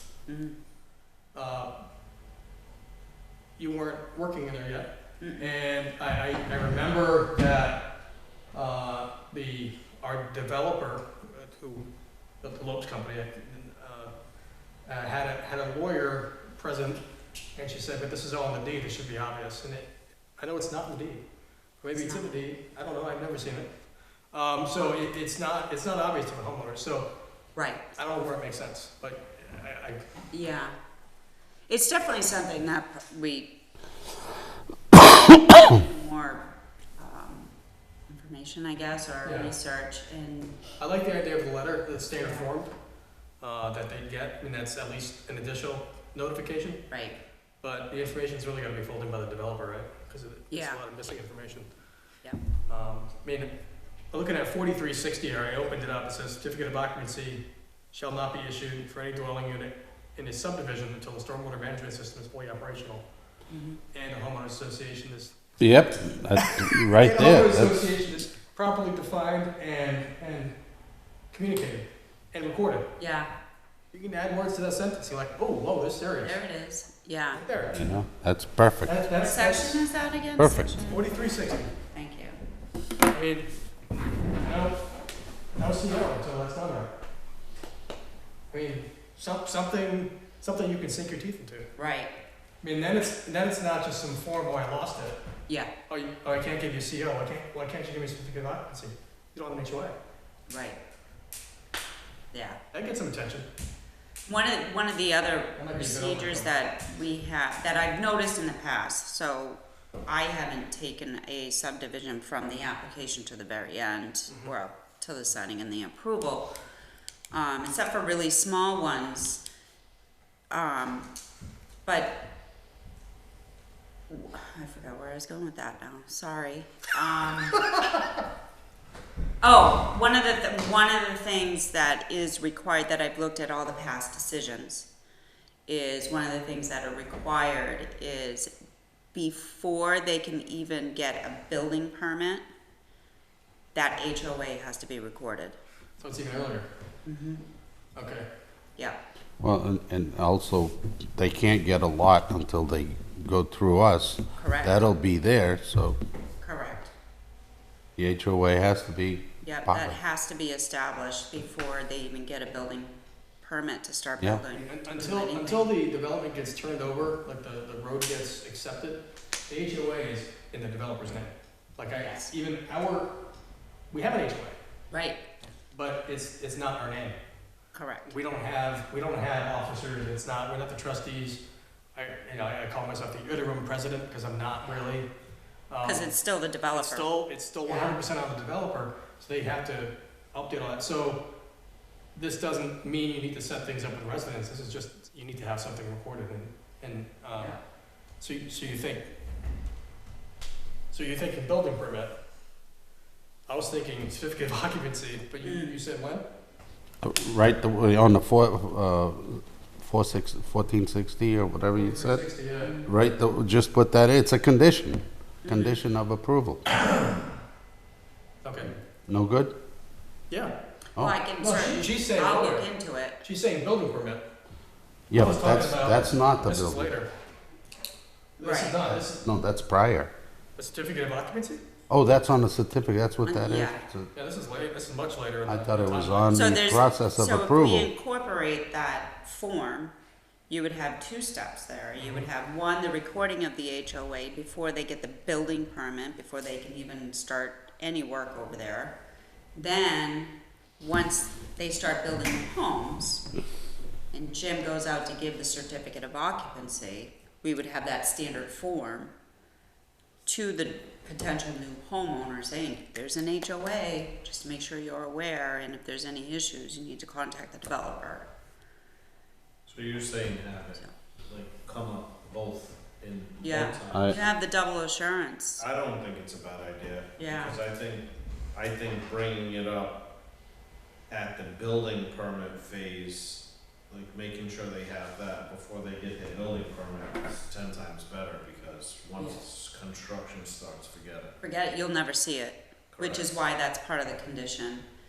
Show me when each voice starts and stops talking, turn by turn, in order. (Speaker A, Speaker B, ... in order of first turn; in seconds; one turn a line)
Speaker A: 0.3-0.6
Speaker B: 1.3-1.7
Speaker B: 3.6-7.9
Speaker A: 5.2-5.5
Speaker B: 8.5-11.9
Speaker B: 12.4-14.1
Speaker B: 14.9-17.0
Speaker B: 17.6-21.2
Speaker B: 21.8-23.7
Speaker A: 21.9-22.3
Speaker B: 24.3-27.1
Speaker A: 27.6-27.8
Speaker B: 27.9-30.1
Speaker A: 30.3-30.8
Speaker A: 31.7-33.5
Speaker A: 35.3-37.5
Speaker A: 38.1-40.7
Speaker B: 39.2-39.5
Speaker B: 40.8-42.7
Speaker A: 42.2-42.5
Speaker B: 43.4-46.9
Speaker A: 46.9-47.2
Speaker B: 47.6-51.7
Speaker A: 50.5-50.8
Speaker B: 52.7-53.5
Speaker B: 54.1-63.0
Speaker A: 63.5-63.8
Speaker B: 63.9-65.4
Speaker C: 65.6-67.9
Speaker B: 66.5-70.6
Speaker B: 71.3-72.9
Speaker A: 73.0-73.3
Speaker B: 73.9-76.4
Speaker A: 76.2-77.4
Speaker B: 77.3-77.8
Speaker C: 77.7-79.0
Speaker B: 78.9-79.8
Speaker A: 79.1-81.1
Speaker C: 80.4-80.8
Speaker B: 80.9-81.7
Speaker A: 81.9-82.4
Speaker B: 83.1-83.6
Speaker B: 84.3-84.8
Speaker B: 85.6-86.9
Speaker B: 88.5-91.7
Speaker A: 91.8-92.1
Speaker B: 92.6-95.2
Speaker B: 95.9-100.0
Speaker A: 100.5-100.8
Speaker A: 102.3-102.6
Speaker B: 102.7-103.5
Speaker A: 104.3-116.5
Speaker B: 105.6-106.5
Speaker A: 117.3-119.4
Speaker A: 120.5-121.1
Speaker A: 121.8-122.2
Speaker A: 124.1-127.8
Speaker A: 129.4-134.9
Speaker A: 135.7-138.5
Speaker A: 139.1-142.5
Speaker A: 143.7-145.6
Speaker B: 146.0-146.7
Speaker A: 147.1-147.4
Speaker B: 148.0-148.3
Speaker C: 149.4-156.0
Speaker A: 154.4-154.8
Speaker A: 156.4-156.9
Speaker C: 158.0-160.0
Speaker A: 159.4-165.7
Speaker B: 164.5-173.2
Speaker A: 172.0-172.3
Speaker B: 173.9-174.6
Speaker A: 174.9-175.2
Speaker B: 175.7-177.2
Speaker A: 177.7-178.2
Speaker B: 178.1-181.4
Speaker B: 181.9-185.1
Speaker A: 184.6-184.9
Speaker B: 185.7-186.1
Speaker A: 185.8-188.0
Speaker B: 186.7-191.2
Speaker B: 192.2-197.6
Speaker B: 198.2-199.1
Speaker B: 200.9-202.2
Speaker B: 203.5-206.2
Speaker A: 205.4-205.8
Speaker C: 207.0-212.2
Speaker B: 211.7-212.8
Speaker A: 212.6-212.9
Speaker C: 212.8-216.7
Speaker A: 215.4-215.8
Speaker B: 218.4-218.7
Speaker C: 219.1-219.5
Speaker A: 221.0-223.2
Speaker B: 221.4-222.7
Speaker B: 223.2-224.2
Speaker C: 225.1-226.9
Speaker B: 225.1-227.1
Speaker B: 228.4-229.2
Speaker A: 228.4-228.8
Speaker C: 229.0-230.1
Speaker B: 230.6-231.6
Speaker C: 231.9-234.1
Speaker A: 233.2-233.8
Speaker B: 234.1-236.3
Speaker C: 235.5-237.9
Speaker A: 236.3-239.9
Speaker A: 240.5-249.0
Speaker A: 249.6-253.3
Speaker A: 254.1-259.1
Speaker A: 260.3-268.3
Speaker D: 269.7-274.3
Speaker A: 273.4-275.6
Speaker C: 273.9-274.2
Speaker D: 275.6-280.0
Speaker A: 277.2-277.6
Speaker D: 281.1-291.3
Speaker A: 291.4-294.9
Speaker D: 292.9-293.3